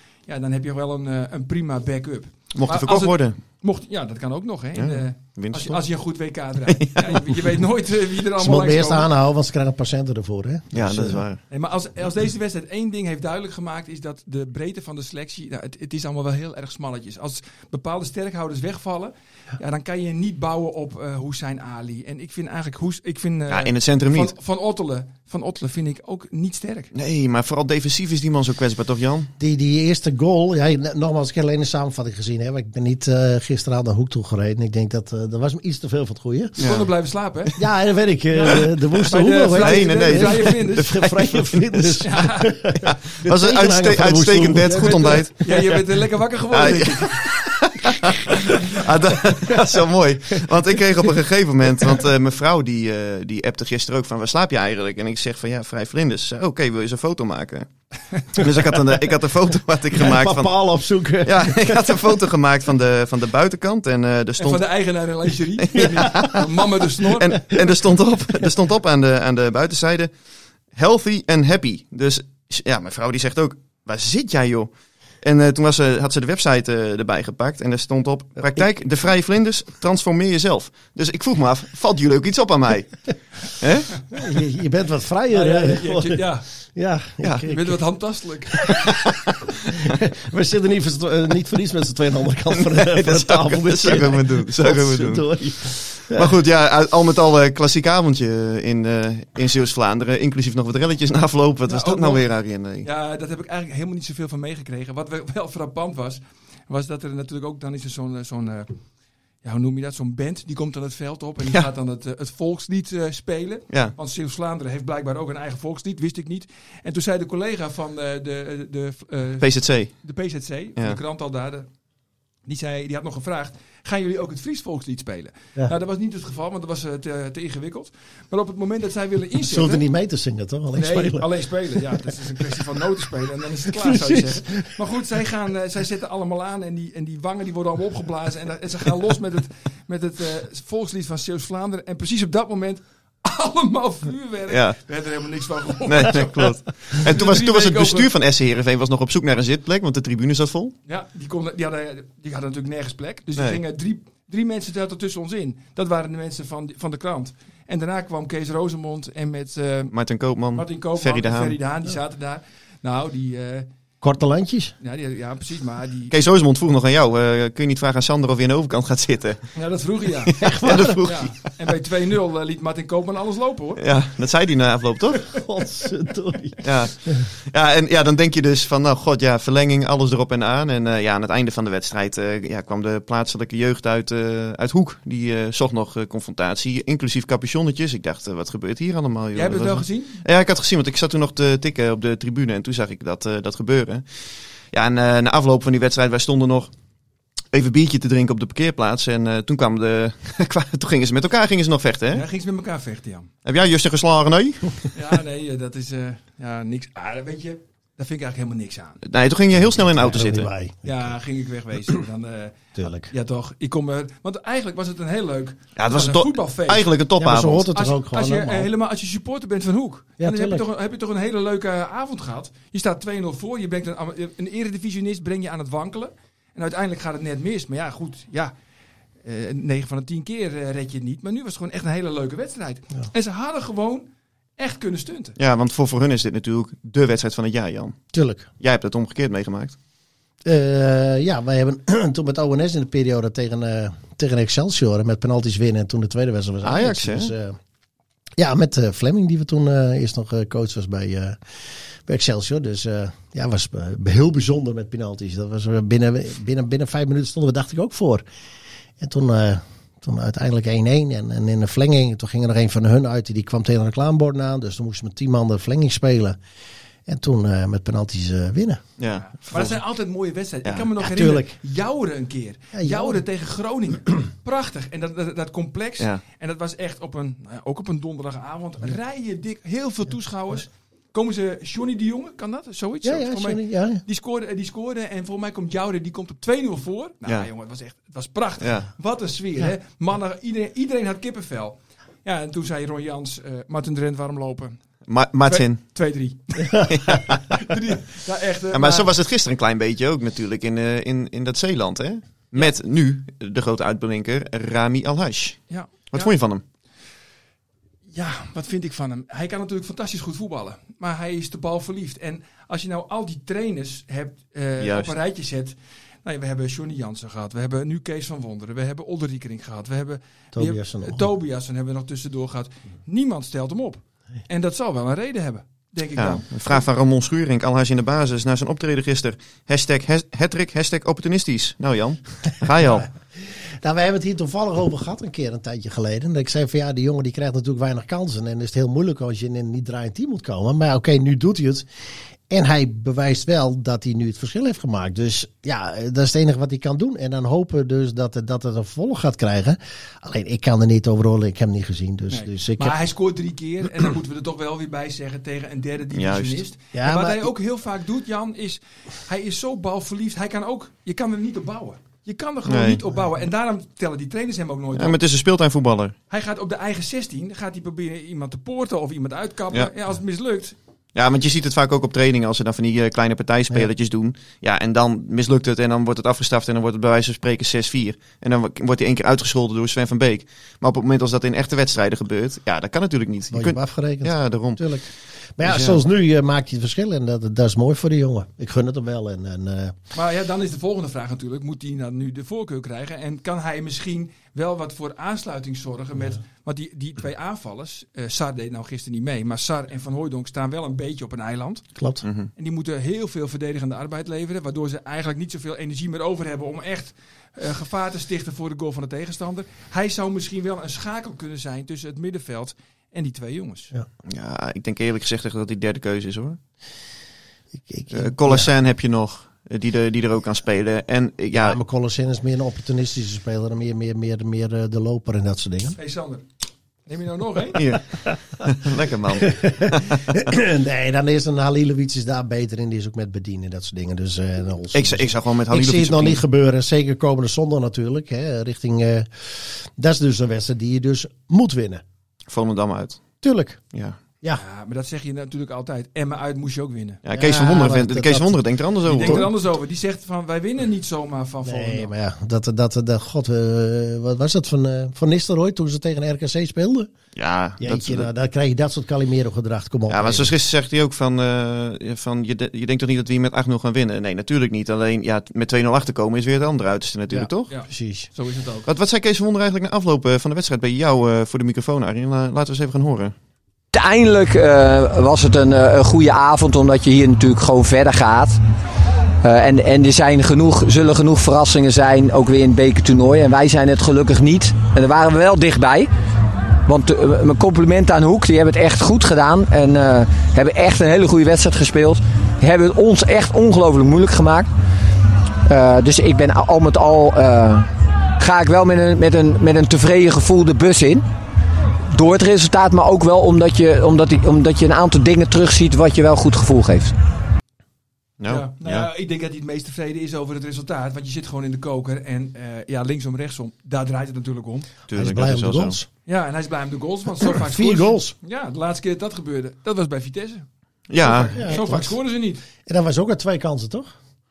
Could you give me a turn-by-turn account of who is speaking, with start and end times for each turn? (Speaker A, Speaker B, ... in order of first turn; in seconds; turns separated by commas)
Speaker A: 0.3-9.1, Speaker B: 2.5-3.4, Speaker B: 4.8-5.8, Speaker B: 6.7-7.4, Speaker C: 8.4-11.2, Speaker B: 10.7-11.4, Speaker A: 11.5-26.9, Speaker B: 23.5-24.3, Speaker B: 26.9-29.3, Speaker C: 29.4-36.6, Speaker A: 36.6-37.6, Speaker B: 36.6-36.9, Speaker C: 37.6-45.2, Speaker A: 38.3-41.0, Speaker B: 39.5-42.1, Speaker A: 42.0-42.5, Speaker B: 42.8-45.8, Speaker A: 44.6-47.2, Speaker B: 46.5-57.7, Speaker C: 49.4-49.6, Speaker B: 58.3-60.5, Speaker C: 59.9-62.1, Speaker B: 61.2-64.7, Speaker A: 64.4-67.4, Speaker B: 65.6-66.5, Speaker C: 65.8-66.4, Speaker B: 67.0-70.1, Speaker B: 70.8-74.7, Speaker B: 75.2-84.2, Speaker C: 84.1-87.8, Speaker A: 85.3-86.5, Speaker B: 87.2-87.5, Speaker A: 87.5-88.8, Speaker C: 88.6-89.0, Speaker B: 88.7-89.4, Speaker C: 89.7-96.3, Speaker B: 92.5-102.9, Speaker A: 101.7-102.2, Speaker A: 102.8-108.7, Speaker A: 109.4-121.7, Speaker B: 119.4-119.9, Speaker A: 122.5-129.8, Speaker C: 129.4-132.0, Speaker A: 130.8-148.1, Speaker C: 133.7-134.8, Speaker B: 144.5-144.8, Speaker B: 145.9-150.8, Speaker A: 150.9-159.9, Speaker B: 159.9-161.6, Speaker A: 160.5-163.7, Speaker C: 164.0-164.7, Speaker A: 164.8-166.1, Speaker B: 166.1-169.5, Speaker A: 169.5-173.8, Speaker C: 170.4-171.0, Speaker B: 170.4-171.4, Speaker B: 173.8-175.3, Speaker C: 175.3-176.7, Speaker B: 176.6-194.0, Speaker A: 189.3-190.2, Speaker B: 194.7-196.7, Speaker B: 197.5-202.2, Speaker A: 202.1-203.3, Speaker B: 203.4-204.9, Speaker A: 204.9-209.0, Speaker B: 209.0-210.5, Speaker C: 209.6-211.1, Speaker A: 210.8-216.9, Speaker C: 212.8-213.1, Speaker B: 215.8-217.7, Speaker C: 217.2-218.7, Speaker A: 217.7-228.5, Speaker C: 220.2-220.6, Speaker A: 229.2-235.4, Speaker B: 235.4-238.0, Speaker C: 238.1-238.5, Speaker B: 238.6-239.8, Speaker C: 240.4-247.6, Speaker B: 246.6-247.3, Speaker C: 248.4-251.4, Speaker C: 252.0-258.2, Speaker C: 259.0-266.4, Speaker C: 267.1-268.8, Speaker B: 269.0-269.8, Speaker A: 269.1-294.8, Speaker C: 271.0-271.6, Speaker C: 272.7-273.2, Speaker C: 283.0-284.0, Speaker B: 288.6-288.9, Speaker B: 295.1-295.8, Speaker A: 295.5-299.1, Speaker B: 296.9-297.6, Speaker B: 298.7-306.6, Speaker A: 305.7-306.3, Speaker A: 308.1-326.9, Speaker B: 314.8-315.1, Speaker C: 320.5-321.2, Speaker B: 326.2-333.1, Speaker C: 332.8-341.9, Speaker C: 342.5-353.0, Speaker A: 352.3-365.2, Speaker B: 356.1-356.6, Speaker C: 356.9-357.5, Speaker B: 362.7-363.0, Speaker B: 364.9-366.1, Speaker A: 366.3-370.8, Speaker B: 371.1-384.8, Speaker C: 383.5-389.9, Speaker B: 385.6-386.0, Speaker A: 390.1-401.9, Speaker C: 401.9-402.2, Speaker B: 402.2-402.5, Speaker A: 402.6-413.9, Speaker B: 414.2-416.6, Speaker C: 417.9-418.7, Speaker B: 418.1-421.8, Speaker C: 421.5-426.0, Speaker A: 426.0-426.4, Speaker A: 427.1-427.9, Speaker B: 427.8-430.2, Speaker C: 429.4-442.0, Speaker B: 434.9-436.4, Speaker B: 442.5-443.2, Speaker C: 443.4-443.8, Speaker A: 444.5-447.2, Speaker B: 447.2-449.5, Speaker C: 447.3-448.6, Speaker A: 449.0-452.1, Speaker C: 449.2-449.5, Speaker C: 451.6-457.1, Speaker B: 457.4-458.3, Speaker C: 457.8-460.5, Speaker B: 460.1-467.7, Speaker C: 467.3-468.3, Speaker A: 467.7-468.9, Speaker B: 468.9-473.3, Speaker D: 473.9-478.6, Speaker D: 479.4-486.1, Speaker D: 486.9-494.7, Speaker D: 495.7-501.2, Speaker D: 502.1-507.1, Speaker B: 508.4-509.1, Speaker A: 508.5-514.9, Speaker B: 515.1-516.0, Speaker C: 515.1-516.1, Speaker A: 516.2-520.6, Speaker C: 517.4-518.4, Speaker B: 521.1-521.9, Speaker A: 521.2-522.6, Speaker C: 521.5-522.1, Speaker C: 522.9-524.1